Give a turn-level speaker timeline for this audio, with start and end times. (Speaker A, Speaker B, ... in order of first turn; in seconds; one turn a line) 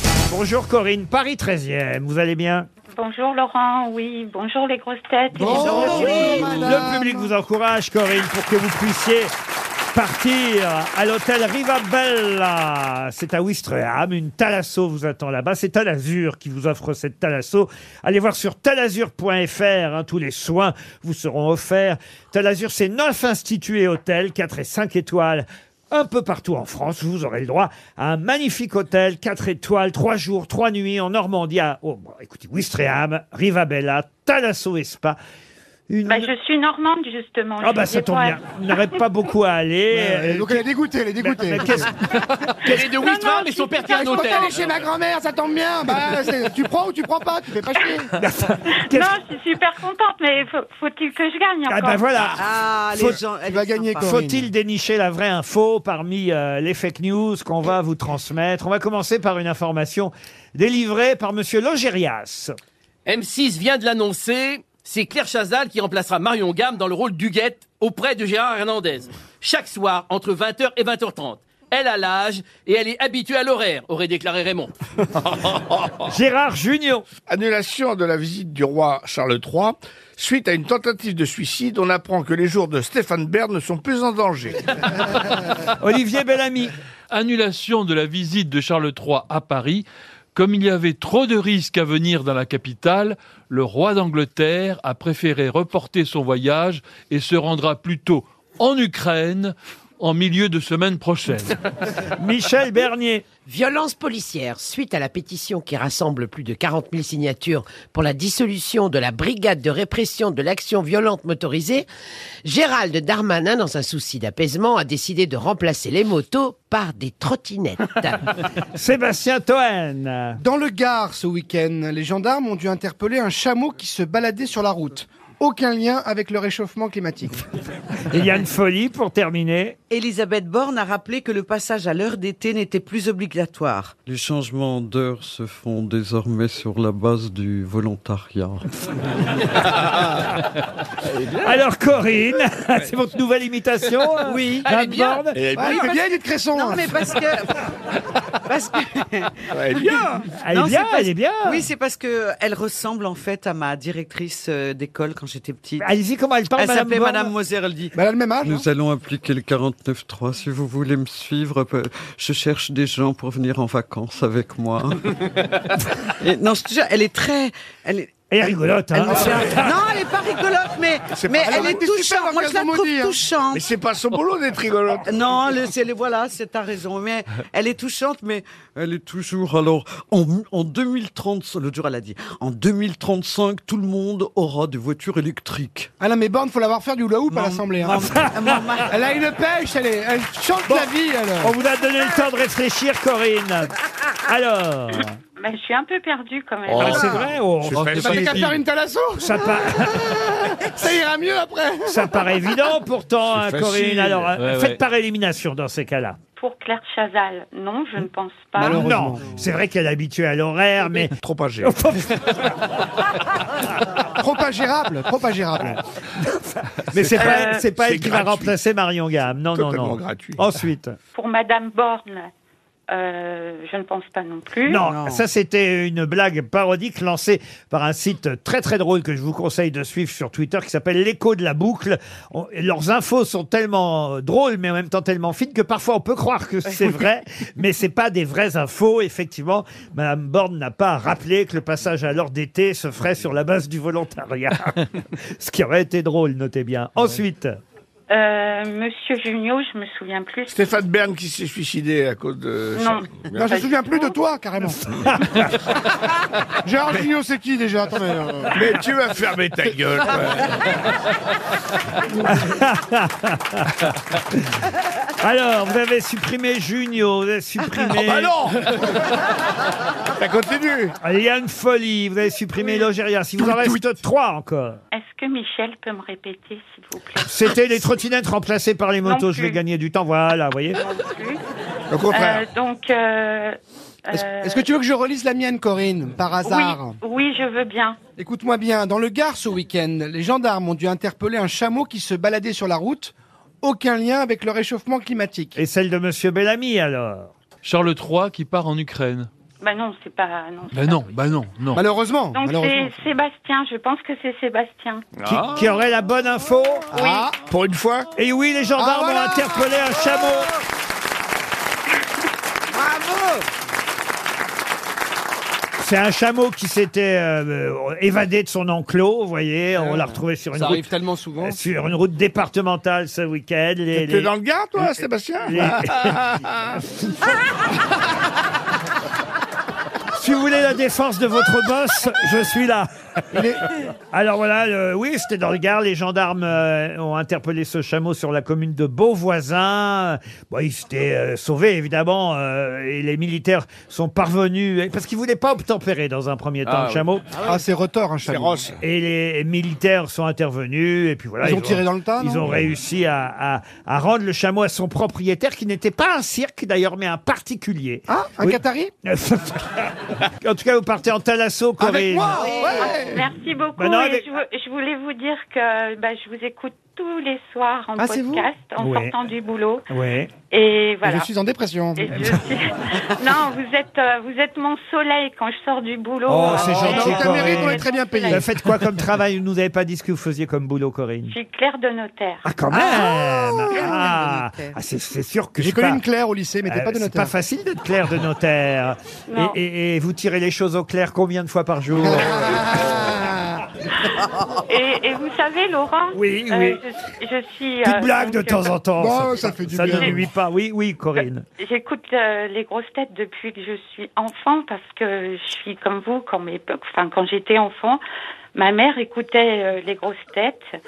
Speaker A: 0.3-2.7
Speaker B: 2.9-6.6
Speaker C: 5.3-7.3
Speaker A: 5.8-9.3
Speaker A: 9.9-35.2
Speaker A: 35.9-36.3
Speaker B: 36.1-38.4
Speaker A: 37.6-40.7
Speaker C: 39.9-41.9
Speaker A: 41.2-41.9
Speaker D: 42.2-44.9
Speaker B: 42.6-44.4
Speaker C: 43.9-48.1
Speaker A: 48.2-49.1
Speaker B: 48.9-52.0
Speaker A: 51.7-53.2
Speaker E: 52.3-54.2
Speaker C: 53.1-54.4
Speaker A: 54.0-62.5
Speaker D: 63.1-74.7
Speaker A: 76.1-77.1
Speaker F: 77.3-84.6
Speaker A: 85.8-86.7
Speaker G: 87.1-101.6
Speaker A: 102.0-103.2
Speaker H: 103.5-107.7
Speaker H: 111.2-111.8
Speaker H: 112.5-118.2
Speaker A: 118.7-120.4
Speaker C: 120.4-127.5
Speaker A: 128.1-129.8
Speaker E: 129.9-134.0
Speaker I: 134.0-138.7
Speaker F: 141.2-141.5
Speaker A: 141.4-145.4
Speaker E: 144.3-147.7
Speaker F: 145.3-145.9
Speaker C: 145.6-147.0
Speaker E: 148.5-155.9
Speaker F: 149.5-150.2
Speaker A: 150.3-151.7
Speaker A: 155.8-157.3
Speaker E: 156.6-158.7
Speaker C: 157.9-158.6
Speaker I: 158.4-165.4
Speaker I: 166.2-166.6
Speaker E: 166.5-168.1
Speaker A: 168.3-169.8
Speaker E: 168.9-173.7
Speaker F: 171.2-171.6
Speaker C: 171.4-173.2
Speaker F: 173.5-175.3
Speaker E: 175.1-178.4
Speaker I: 175.1-175.7
Speaker I: 178.8-185.9
Speaker C: 186.0-188.2
Speaker E: 187.3-188.9
Speaker A: 187.8-188.9
Speaker C: 188.9-191.5
Speaker A: 191.4-195.1
Speaker B: 195.4-197.2
Speaker A: 196.8-197.9
Speaker C: 196.8-197.2
Speaker F: 197.6-198.4
Speaker G: 197.7-198.6
Speaker C: 197.9-202.3
Speaker A: 199.2-200.3
Speaker A: 201.9-206.2
Speaker F: 203.3-204.3
Speaker G: 204.4-204.8
Speaker B: 206.4-208.9
Speaker C: 208.6-209.2
Speaker A: 208.6-212.8
Speaker F: 211.2-211.8
Speaker C: 214.2-215.8
Speaker A: 215.6-220.9
Speaker F: 217.0-218.6
Speaker B: 217.2-217.7
Speaker F: 219.5-220.4
Speaker B: 221.1-222.3
Speaker B: 222.9-224.8
Speaker A: 224.7-247.5
Speaker E: 224.8-225.2
Speaker B: 248.1-250.7
Speaker F: 250.5-253.6
Speaker B: 252.7-254.2
Speaker C: 253.4-254.8
Speaker A: 255.0-255.6
Speaker C: 256.6-258.6
Speaker F: 258.6-260.7
Speaker A: 262.2-263.7
Speaker A: 265.2-268.3
Speaker F: 268.0-268.6
Speaker F: 270.2-270.9
Speaker A: 271.0-274.8
Speaker B: 274.9-277.3
Speaker A: 277.3-280.8
Speaker B: 279.1-279.6
Speaker B: 280.8-281.4
Speaker F: 281.9-282.4
Speaker B: 282.1-284.6
Speaker C: 284.4-287.0
Speaker B: 286.4-288.0
Speaker C: 288.2-295.6
Speaker A: 295.6-297.3
Speaker G: 297.6-299.3
Speaker B: 299.6-301.2
Speaker G: 300.7-301.8
Speaker C: 301.7-303.0
Speaker B: 302.3-305.0
Speaker G: 305.2-305.7
Speaker A: 305.2-306.9
Speaker B: 306.9-307.3
Speaker C: 307.0-307.4
Speaker F: 307.4-308.1
Speaker A: 308.2-310.5
Speaker C: 308.8-310.5
Speaker C: 312.7-313.4
Speaker A: 315.8-326.2
Speaker D: 320.5-321.6
Speaker F: 323.9-326.8
Speaker A: 326.9-327.3
Speaker A: 330.1-347.3
Speaker C: 333.3-333.6
Speaker C: 347.4-348.7
Speaker F: 348.2-348.7
Speaker A: 348.8-362.6
Speaker C: 351.4-352.6
Speaker C: 358.1-358.9
Speaker C: 361.8-363.2
Speaker B: 362.8-369.9
Speaker A: 363.8-364.3
Speaker E: 368.0-368.5
Speaker A: 368.8-369.1
Speaker A: 369.9-370.3
Speaker B: 370.5-371.3
Speaker C: 371.0-372.1
Speaker B: 372.0-378.5
Speaker A: 376.3-381.3
Speaker C: 376.5-378.5
Speaker B: 381.3-382.5
Speaker A: 382.4-386.0
Speaker C: 383.1-383.9
Speaker E: 383.8-384.7
Speaker C: 385.6-387.3
Speaker A: 386.7-392.7
Speaker B: 389.3-389.6
Speaker C: 392.0-393.6
Speaker B: 394.6-398.8
Speaker A: 396.1-396.8
Speaker A: 397.8-401.4
Speaker C: 399.0-400.2
Speaker B: 399.9-400.2
Speaker B: 401.6-408.0
Speaker B: 408.6-410.6